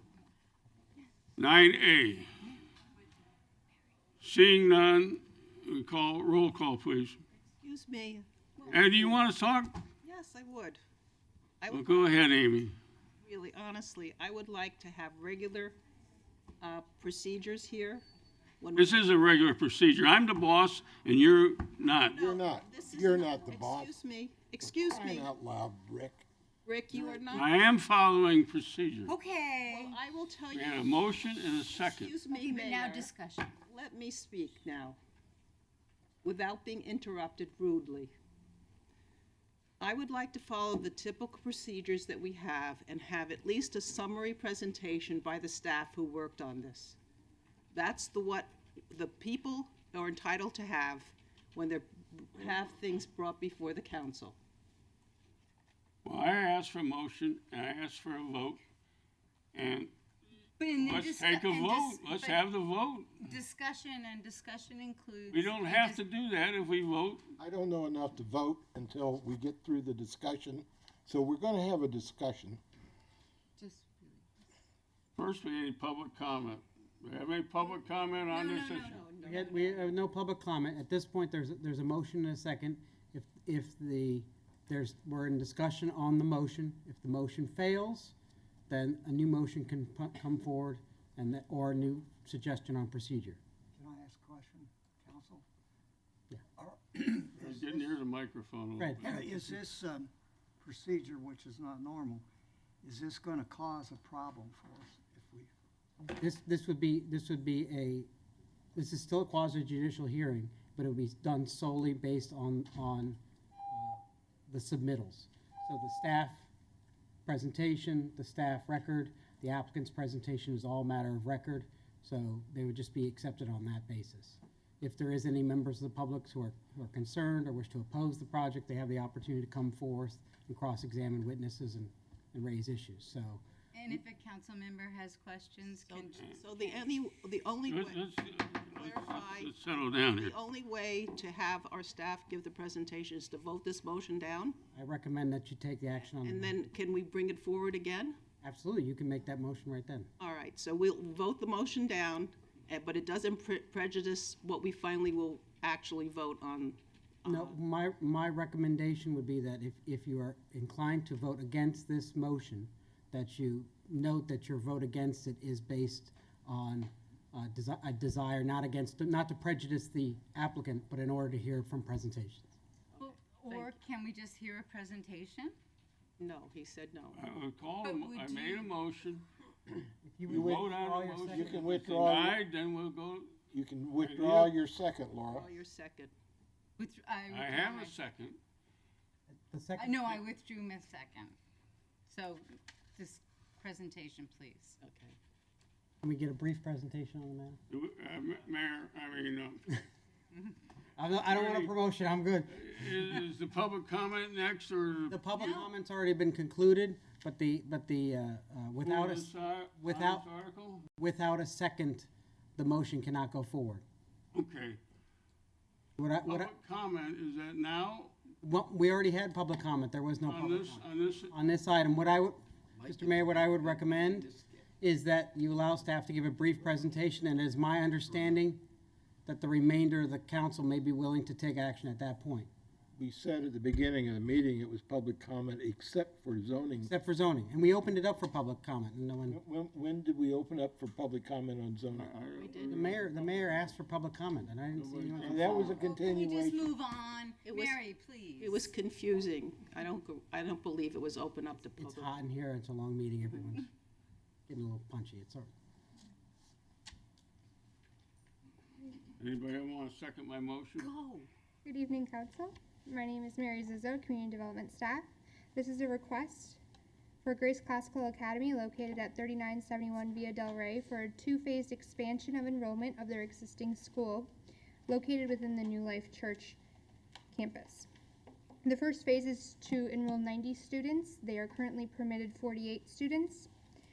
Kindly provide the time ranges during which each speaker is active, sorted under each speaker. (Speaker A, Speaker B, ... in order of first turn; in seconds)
Speaker A: 1.4-2.3, 4.2-7.2, 8.7-9.8, 11.7-12.7, 18.7-22.2, 27.3-29.1, 30.5-32.1, 56.0-58.6, 59.5-59.9, 60.8-63.2, 65.3-67.2, 75.2-79.0, 97.4-99.3, 137.7-140.3, 177.1-179.2, 180.3-183.3, 184.0-184.5, 187.3-188.4, 197.7-199.7, 201.2-201.7, 202.5-205.2, 208.8-210.8, 214.3-214.8, 216.2-218.1, 220.2-221.3, 241.9-243.6, 244.7-245.8, 259.2-260.9
Speaker B: 7.6-9.2, 10.0-10.8, 11.6-12.2, 13.2-15.8, 16.6-18.0, 18.6-19.1, 22.1-25.3, 26.6-27.6, 29.7-30.9, 31.7-33.1, 33.6-35.0, 36.2-38.1, 39.8-47.0, 47.7-54.4, 78.8-80.0, 135.7-138.1, 138.7-144.6, 146.2-148.2, 150.2-157.5, 173.0-173.7, 176.2-177.2, 185.3-186.1, 194.8-195.1, 242.3-243.0, 247.4-247.8, 248.4-252.1
Speaker C: 22.1-23.9, 24.6-26.2, 67.4-72.6, 180.3-180.7, 181.3-182.4, 183.5-185.5, 232.9-236.9, 239.3-242.1, 245.2-246.7
Speaker D: 29.1-30.0, 32.3-33.5, 60.6-62.4, 63.2-66.0, 73.6-74.2, 78.3-79.0, 133.7-136.8, 173.0-175.5, 177.8-178.7, 186.8-187.9, 189.8-191.3, 192.1-194.8, 205.3-205.7, 245.6-248.7, 260.8-261.3
Speaker E: 79.2-88.1, 88.7-93.4, 98.8-99.6, 106.1-108.1, 108.7-113.2, 113.7-116.5, 117.2-133.9, 144.7-146.7, 148.4-150.1, 157.2-172.5, 180.0-181.7, 189.5-190.2, 196.0-197.6, 201.0-202.7, 205.1-210.3, 210.9-213.8, 216.0-216.5, 218.4-228.6, 229.2-232.5, 236.8-239.4, 242.6-245.8, 251.8-253.7, 254.5-255.5
Speaker F: 93.7-95.5, 96.5-97.8, 99.0-102.2, 102.8-105.5
Speaker G: 261.6-266.6, 267.2-274.3, 274.9-276.6, 277.3-277.9, 278.6-283.5